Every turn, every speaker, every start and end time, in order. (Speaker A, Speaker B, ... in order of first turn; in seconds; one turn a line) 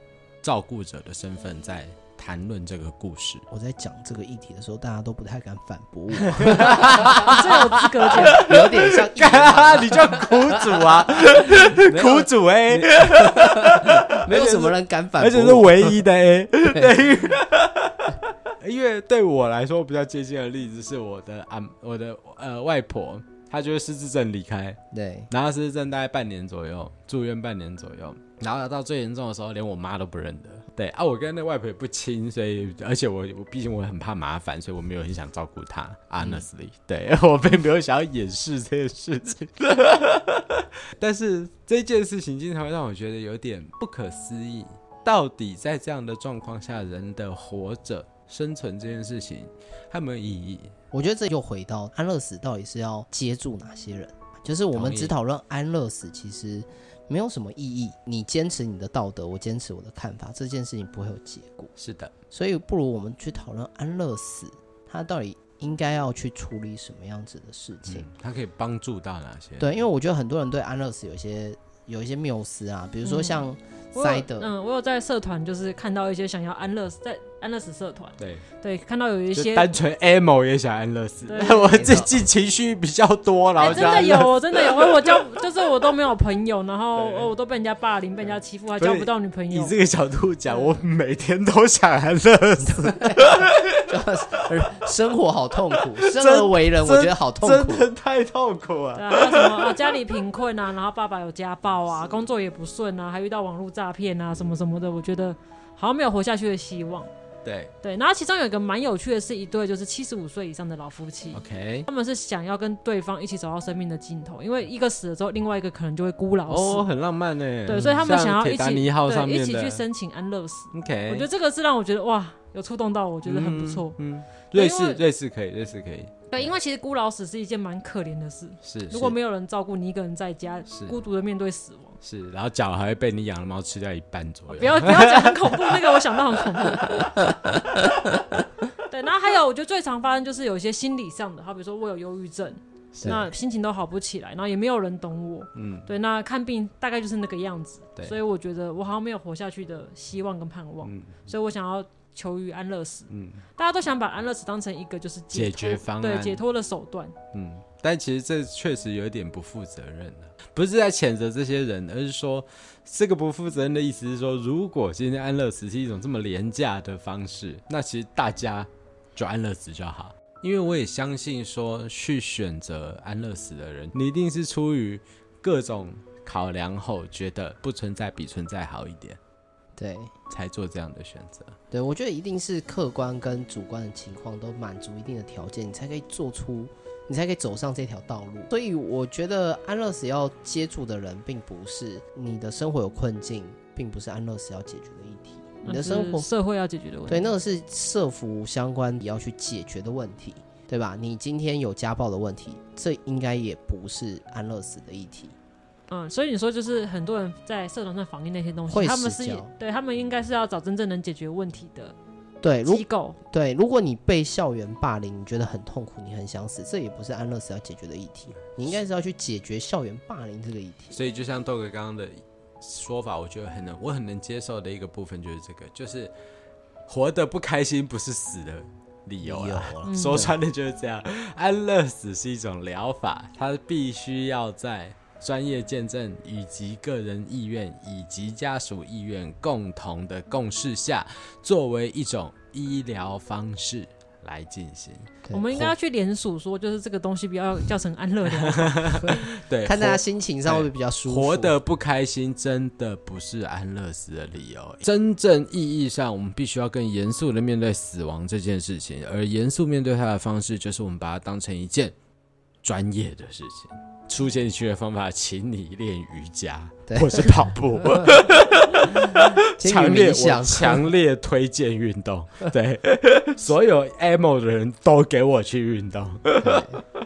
Speaker A: 0.4-3.5
Speaker B: 3.5-7.3
Speaker A: 6.2-24.8
Speaker C: 7.0-8.5
Speaker B: 8.2-16.0
Speaker B: 16.7-17.0
Speaker B: 24.9-25.3
Speaker A: 25.3-50.7
Speaker B: 36.2-36.5
Speaker B: 50.9-61.7
Speaker A: 54.7-55.1
Speaker A: 61.8-62.1
Speaker B: 62.3-68.1
Speaker A: 67.9-69.8
Speaker B: 69.6-74.5
Speaker C: 73.0-79.7
Speaker A: 78.2-78.4
Speaker A: 79.3-85.2
Speaker C: 81.3-81.9
Speaker B: 81.7-82.1
Speaker C: 83.6-89.8
Speaker A: 87.0-87.3
Speaker A: 88.8-93.8
Speaker C: 90.5-90.8
Speaker B: 92.7-97.9
Speaker A: 95.8-100.0
Speaker C: 99.0-107.1
Speaker A: 107.4-107.7
Speaker C: 107.8-116.8
Speaker A: 111.3-111.9
Speaker A: 116.5-119.8
Speaker C: 117.7-124.0
Speaker A: 120.7-121.3
Speaker A: 123.2-126.5
Speaker C: 124.5-125.0
Speaker C: 126.3-132.0
Speaker A: 128.6-129.2
Speaker A: 130.7-130.9
Speaker A: 132.0-136.0
Speaker C: 134.5-137.2
Speaker B: 137.0-138.1
Speaker C: 138.8-157.2
Speaker A: 142.9-143.2
Speaker A: 145.6-145.9
Speaker A: 150.8-151.2
Speaker A: 153.1-153.4
Speaker A: 155.3-156.4
Speaker A: 157.3-179.2
Speaker B: 179.8-180.1
Speaker A: 180.3-181.6
Speaker B: 181.7-196.3
Speaker C: 195.6-197.3
Speaker B: 197.1-205.3
Speaker C: 205.9-212.0
Speaker B: 208.7-209.5
Speaker B: 212.4-221.0
Speaker C: 212.7-213.2
Speaker A: 220.9-226.1
Speaker A: 226.9-245.1
Speaker B: 229.2-230.4
Speaker C: 229.9-230.2
Speaker B: 245.2-245.7
Speaker C: 245.3-249.2
Speaker A: 248.3-261.9
Speaker B: 249.6-251.6
Speaker A: 262.6-276.7
Speaker B: 266.9-267.3
Speaker B: 268.9-270.9
Speaker B: 276.4-276.8